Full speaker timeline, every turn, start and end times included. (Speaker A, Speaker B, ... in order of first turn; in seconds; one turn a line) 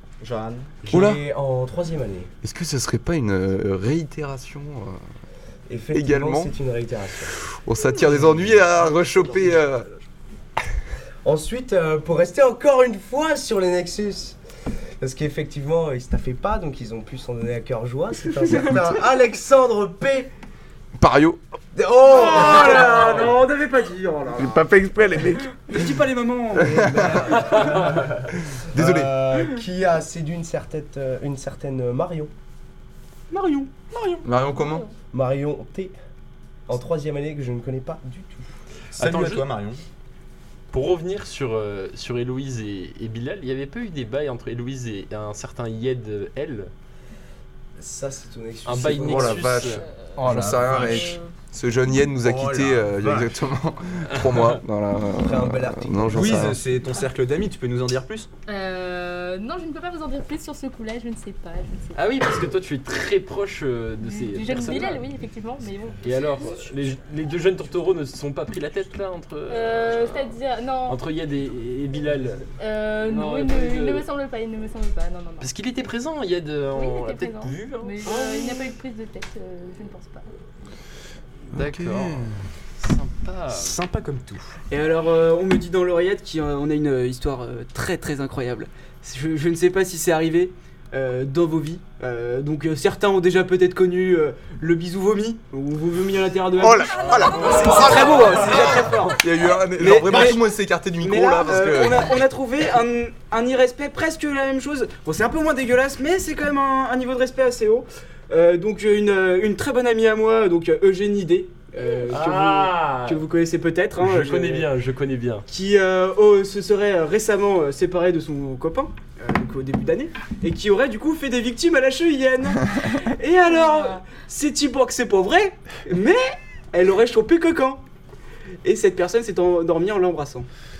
Speaker A: 0.2-0.9
Speaker B: 0.9-2.3
Speaker C: 0.9-1.2
Speaker C: 2.4-5.0
Speaker B: 5.7-7.4
Speaker C: 5.9-6.5
Speaker C: 7.5-9.9
Speaker D: 9.1-9.4
Speaker B: 11.2-14.4
Speaker B: 15.0-20.3
Speaker D: 18.4-18.7
Speaker C: 21.0-21.4
Speaker B: 21.7-23.4
Speaker D: 22.0-24.6
Speaker C: 24.4-25.5
Speaker D: 25.5-28.1
Speaker B: 26.5-32.3
Speaker C: 26.8-27.2
Speaker C: 28.7-29.1
Speaker D: 33.3-34.2
Speaker C: 34.2-34.9
Speaker E: 34.5-34.9
Speaker B: 35.1-35.9
Speaker B: 36.7-38.5
Speaker A: 38.9-39.8
Speaker F: 39.0-39.5
Speaker F: 40.7-46.7
Speaker B: 47.8-49.5
Speaker F: 48.6-49.8
Speaker C: 49.0-56.6
Speaker E: 49.8-51.3
Speaker A: 50.1-51.1
Speaker A: 52.2-53.3
Speaker F: 54.1-54.6
Speaker B: 55.1-56.6
Speaker A: 56.1-58.3
Speaker E: 58.5-62.2
Speaker F: 61.9-65.1
Speaker E: 64.0-66.8
Speaker F: 66.0-72.5
Speaker E: 69.5-71.0
Speaker E: 72.6-75.5
Speaker F: 73.0-74.0
Speaker F: 75.4-78.1
Speaker E: 76.7-80.3
Speaker D: 78.0-78.7
Speaker F: 81.5-83.8
Speaker C: 81.5-82.4
Speaker A: 83.5-84.5
Speaker D: 84.7-114.7
Speaker C: 96.6-102.1
Speaker F: 112.1-113.2
Speaker F: 114.0-115.5
Speaker D: 115.5-127.8
Speaker E: 123.5-124.0
Speaker D: 128.6-130.5